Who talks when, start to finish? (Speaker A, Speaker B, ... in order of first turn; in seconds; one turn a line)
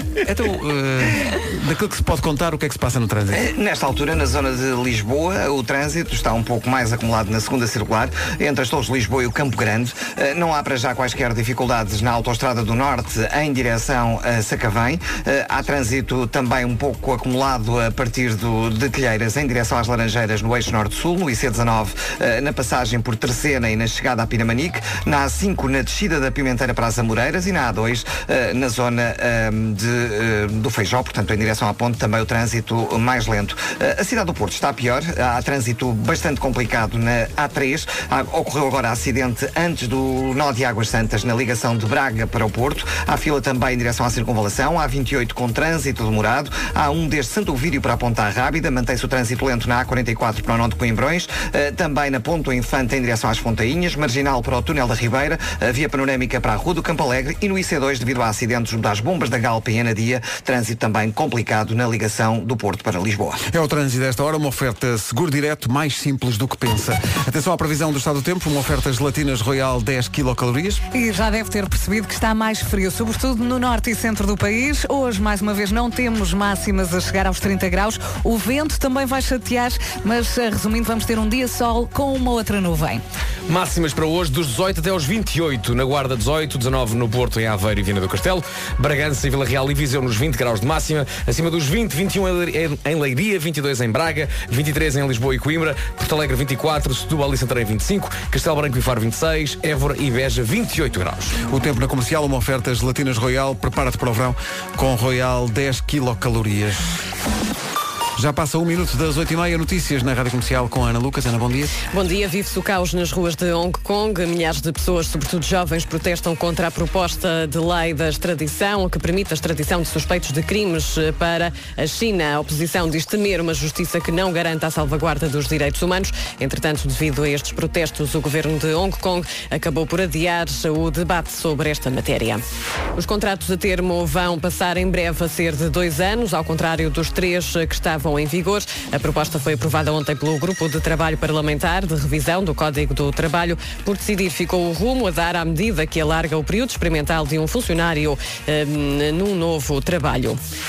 Speaker A: 0.2-3.5
Speaker B: 3.3-63.4
Speaker A: 63.5-70.8
Speaker C: 70.9-83.0
Speaker D: 83.5-101.4
Speaker A: 101.4-107.0
Speaker A: 108.2-111.8
Speaker E: 111.9-132.4
Speaker E: 133.0-150.4